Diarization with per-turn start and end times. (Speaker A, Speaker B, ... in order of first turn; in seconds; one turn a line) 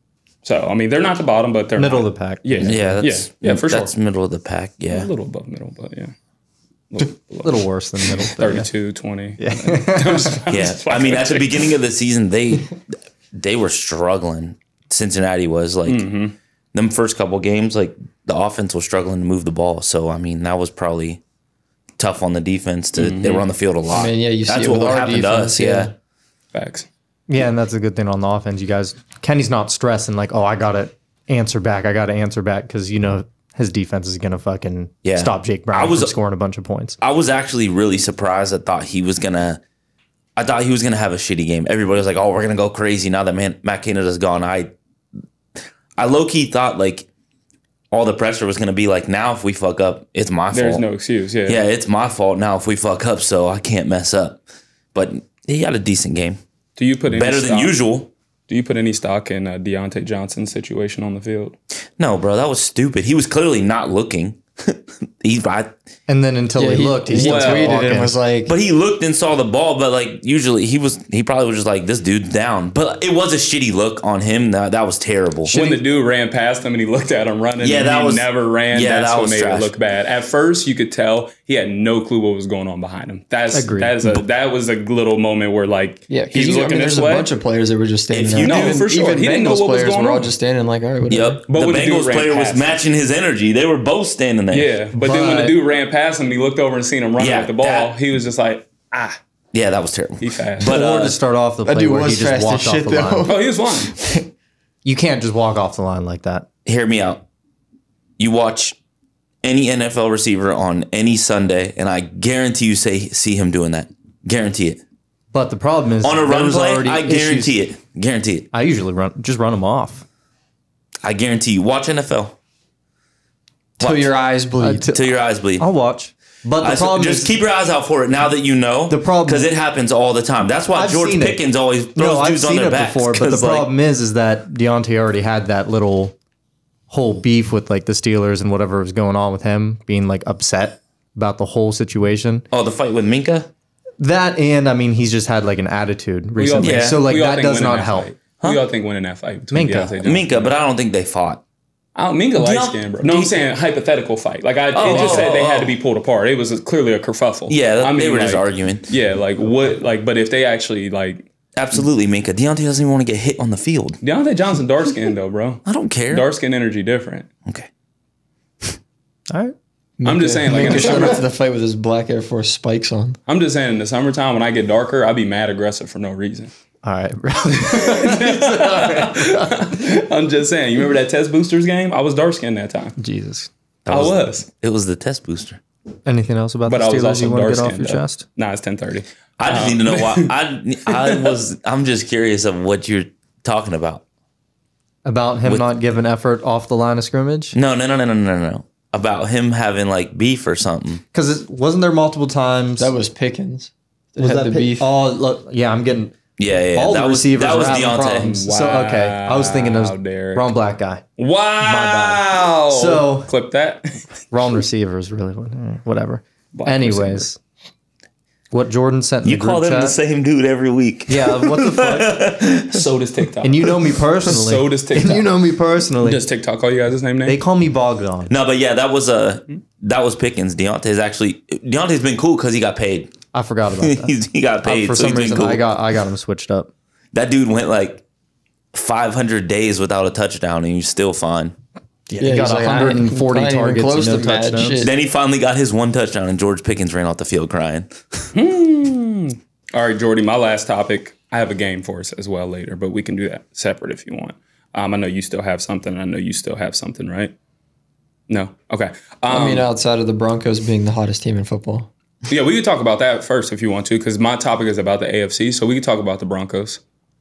Speaker A: 0.4-3.9
Speaker B: 1.8-3.1
Speaker C: 2.6-5.1
Speaker A: 4.9-6.1
Speaker A: 6.9-11.6
Speaker B: 7.4-8.7
Speaker B: 9.4-10.4
Speaker C: 10.5-12.8
Speaker C: 13.3-16.1
Speaker A: 15.9-16.4
Speaker C: 16.7-21.2
Speaker C: 22.0-25.9
Speaker A: 23.0-23.4
Speaker D: 23.9-25.9
Speaker A: 26.5-26.9
Speaker B: 27.3-37.0
Speaker C: 35.0-36.1
Speaker C: 37.0-39.6
Speaker C: 40.4-44.7
Speaker C: 46.0-47.1
Speaker C: 47.9-50.8
Speaker A: 50.5-51.6
Speaker C: 51.5-54.4
Speaker C: 54.9-56.4
Speaker A: 56.8-57.8
Speaker C: 57.1-58.1
Speaker A: 58.5-61.6
Speaker C: 62.0-65.7
Speaker B: 66.1-68.2
Speaker D: 66.6-68.5
Speaker A: 67.1-67.8
Speaker C: 68.5-75.5
Speaker A: 75.5-87.3
Speaker C: 77.6-79.7
Speaker B: 83.5-84.2
Speaker D: 86.1-91.4
Speaker C: 88.1-88.8
Speaker A: 88.4-90.3
Speaker C: 91.1-94.8
Speaker A: 91.5-92.8
Speaker A: 94.5-99.2
Speaker B: 95.0-95.6
Speaker C: 97.2-98.0
Speaker C: 99.5-101.2
Speaker A: 100.2-100.7
Speaker B: 100.6-103.3
Speaker D: 101.7-104.3
Speaker A: 103.3-103.9
Speaker B: 104.8-106.5
Speaker C: 106.7-107.2
Speaker C: 108.2-108.8
Speaker C: 109.4-114.8
Speaker B: 115.3-117.5
Speaker C: 116.0-118.5
Speaker B: 118.5-120.0
Speaker C: 121.0-122.3
Speaker C: 123.8-124.1
Speaker D: 123.8-124.9
Speaker B: 124.6-127.3
Speaker C: 124.9-125.7
Speaker C: 126.6-133.7
Speaker B: 128.9-129.5
Speaker B: 130.7-131.4
Speaker B: 131.9-136.2
Speaker B: 136.9-142.5
Speaker C: 142.5-143.5
Speaker B: 144.0-148.1
Speaker A: 146.4-150.5
Speaker C: 146.6-147.0
Speaker B: 149.5-150.0
Speaker C: 150.0-151.4
Speaker A: 152.0-161.8
Speaker C: 152.4-153.4
Speaker C: 154.8-155.8
Speaker B: 154.9-155.3
Speaker C: 157.5-158.9
Speaker C: 161.6-164.0
Speaker A: 164.0-167.3
Speaker C: 165.7-166.3
Speaker B: 169.3-169.6
Speaker D: 170.0-173.2
Speaker A: 170.1-171.2
Speaker A: 173.3-176.5
Speaker B: 176.8-179.7
Speaker A: 177.7-183.0
Speaker B: 183.0-183.5
Speaker C: 183.8-185.6
Speaker A: 183.9-184.5
Speaker B: 186.1-188.2
Speaker A: 186.7-190.3
Speaker C: 189.4-194.0
Speaker A: 190.9-191.3
Speaker B: 195.1-197.6
Speaker C: 197.5-201.0
Speaker B: 201.1-202.9
Speaker D: 202.8-204.9
Speaker B: 204.2-206.2
Speaker C: 206.4-208.3
Speaker B: 206.7-211.1
Speaker A: 208.2-210.5
Speaker A: 211.2-214.1
Speaker B: 211.6-213.3
Speaker B: 214.3-217.4
Speaker A: 216.5-217.3
Speaker B: 218.5-220.0
Speaker C: 219.2-222.8
Speaker B: 221.1-222.4
Speaker A: 222.7-223.7
Speaker B: 223.4-226.2
Speaker A: 224.2-225.3
Speaker A: 226.0-227.4
Speaker B: 227.2-228.3
Speaker C: 228.3-233.1
Speaker B: 233.3-236.7
Speaker C: 233.8-235.6
Speaker C: 237.1-238.0
Speaker C: 238.7-241.6
Speaker B: 242.1-244.8
Speaker D: 242.2-244.9
Speaker C: 244.8-248.3
Speaker A: 248.3-257.3
Speaker A: 258.3-259.7
Speaker D: 259.3-261.9
Speaker A: 262.3-266.8